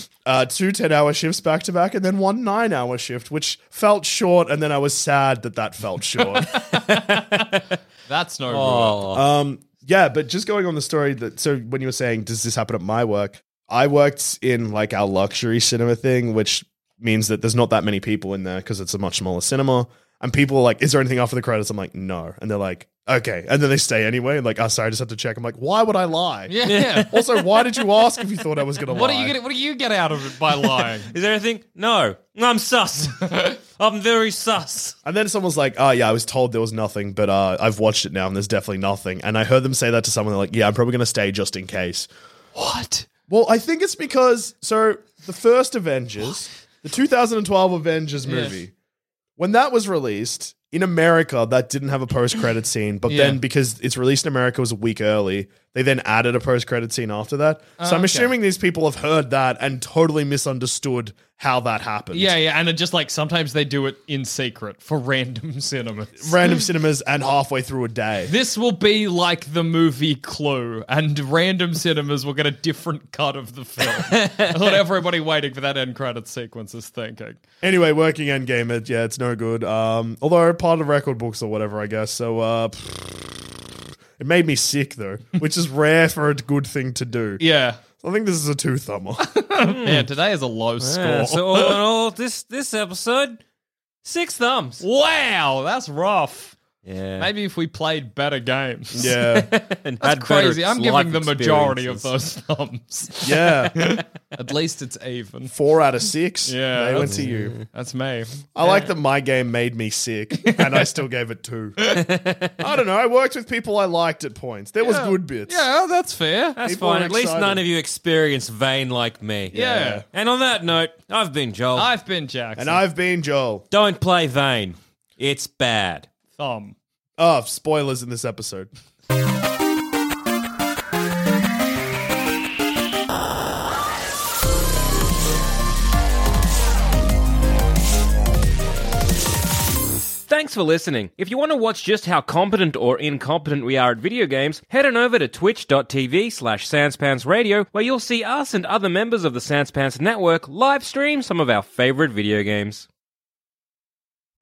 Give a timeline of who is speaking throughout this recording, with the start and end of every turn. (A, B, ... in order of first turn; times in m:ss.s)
0:00.3-0:06.6 A
0:06.6-0:07.6 B
0:07.4-0:09.1 C
0:08.5-0:09.2 B
0:09.1-0:26.6 A
0:26.5-0:27.1 C
0:26.7-0:28.0 B
0:27.1-0:29.4 A
0:28.9-0:31.1 C
0:31.1-0:35.0 B
0:33.3-0:33.6 C
0:35.0-0:42.1 A
0:42.6-0:43.1 C
0:43.3-0:48.7 A
0:48.2-0:48.6 C
0:49.4-1:02.4 A
0:53.1-0:53.4 C
0:57.8-0:58.3 C
1:02.1-1:06.3 C
1:06.2-1:08.3 A
1:08.3-1:17.4 C
1:14.0-1:14.5 B
1:17.6-1:23.4 A
1:24.2-1:27.4 A
1:27.4-1:27.8 C
1:28.0-1:29.4 A
1:29.3-1:31.8 C
1:29.7-1:30.1 B
1:30.8-1:33.4 B
1:34.0-1:34.8 B
1:34.8-1:36.6 C
1:36.8-1:37.3 B
1:37.2-1:39.2 C
1:39.0-1:39.5 A
1:39.1-1:42.1 B
1:40.0-1:45.5 C
1:43.2-1:43.8 A
1:45.5-1:47.6 A
1:46.5-1:48.4 C
1:47.1-1:47.6 B
1:48.6-1:51.8 A
1:50.4-1:50.9 C
1:51.9-1:52.6 B
1:52.6-1:55.6 A
1:54.8-1:56.6 C
1:56.6-1:59.5 B
1:56.6-1:57.6 A
1:59.5-2:00.0 C
1:59.5-2:00.0 A
2:00.1-2:01.9 B
2:01.8-2:02.8 C
2:02.6-2:03.6 A
2:03.7-2:06.1 B
2:06.4-2:06.8 C
2:07.2-2:08.7 A
2:20.3-2:32.9 B